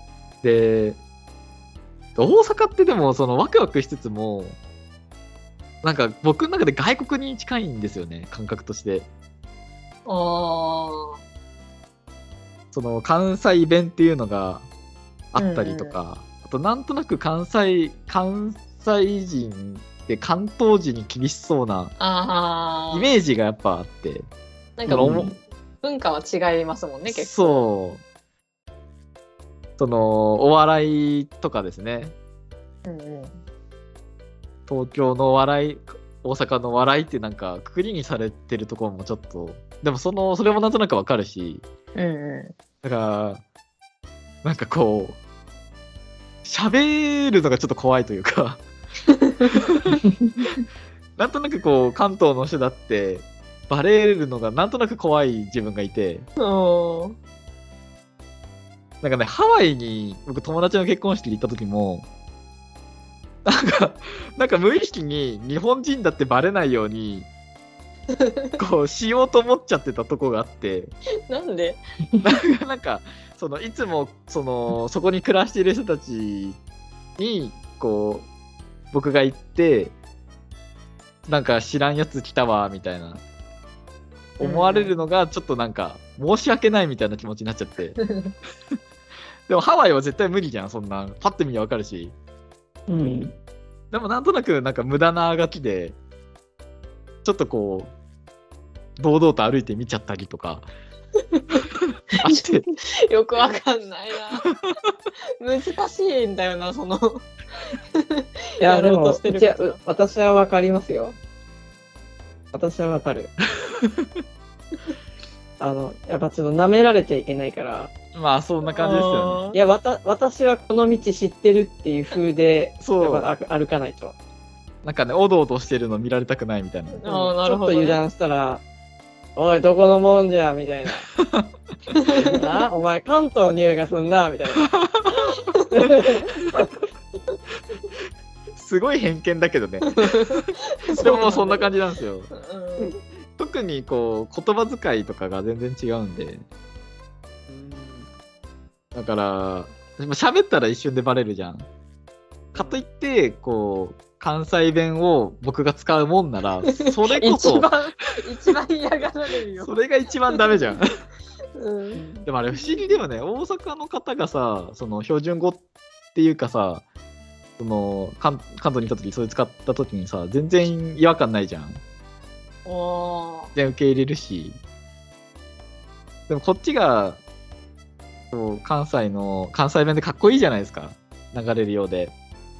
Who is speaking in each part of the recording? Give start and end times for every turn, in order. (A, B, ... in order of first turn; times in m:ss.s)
0:00.4-0:01.0 A
0:02.2-0:04.6 A
0:05.8-0:09.1 A
0:10.1-0:11.2 B
0:12.7-0:14.7 A
0:15.3-0:21.9 A
0:15.4-0:16.0 B
0:22.0-0:23.1 B
0:22.9-0:24.3 A
0:24.8-0:25.2 B
0:24.9-0:25.3 A
0:24.9-0:25.4 C
0:25.8-0:27.6 B
0:27.1-0:28.0 A
0:29.8-0:32.2 A
0:32.8-0:33.4 B
0:34.7-0:41.6 A
0:42.0-0:42.5 B
0:42.8-0:43.4 A
0:44.4-0:45.2 A
0:46.4-0:48.6 A
0:49.6-0:50.4 A
0:50.0-0:50.6 C
0:51.2-0:56.3 A
0:56.4-0:57.2 B
0:59.0-1:02.1 A
1:03.4-1:07.3 A
1:08.1-1:08.5 B
1:08.6-1:10.9 A
1:11.3-1:11.8 B
1:12.2-1:16.6 A
1:17.2-1:18.3 A
1:18.9-1:19.9 A
1:21.3-1:23.2 A
1:24.4-1:28.0 A
1:24.4-1:24.9 B
1:28.0-1:28.3 B
1:29.5-1:32.2 A
1:32.9-1:33.4 C
1:33.9-1:36.0 A
1:37.2-1:37.9 A
1:39.0-1:40.7 A
1:41.3-1:41.6 B
1:42.2-1:42.7 A
1:42.3-1:44.5 B
1:45.4-1:49.8 B
1:48.6-1:51.2 C
1:52.5-1:53.3 C
1:53.6-1:54.1 A
1:55.6-1:57.9 C
1:58.1-1:59.4 A
1:58.7-1:59.6 B
1:59.5-2:04.2 C
2:02.8-2:03.3 A
2:04.8-2:07.0 A
2:06.9-2:08.0 B
2:07.1-2:08.6 C
2:09.4-2:11.1 C
2:11.2-2:11.5 A
2:12.0-2:12.5 B
2:12.1-2:14.7 C
2:14.7-2:15.3 A
2:15.2-2:16.8 C
2:18.5-2:22.3 A
2:20.0-2:21.6 B
2:21.0-2:21.6 C
2:22.3-2:22.9 B
2:23.4-2:26.4 A
2:27.5-2:28.1 C
2:28.9-2:31.7 A
2:32.5-2:37.7 A
2:36.7-2:39.8 B
2:39.6-2:41.0 A
2:40.3-2:40.6 B
2:41.6-2:42.0 B
2:41.9-2:42.3 C
2:42.3-2:45.6 A
2:46.2-2:46.8 A
2:47.6-2:51.8 A
2:52.6-2:53.5 B
2:53.6-2:54.6 A
2:56.3-2:57.2 A
2:58.3-3:02.1 A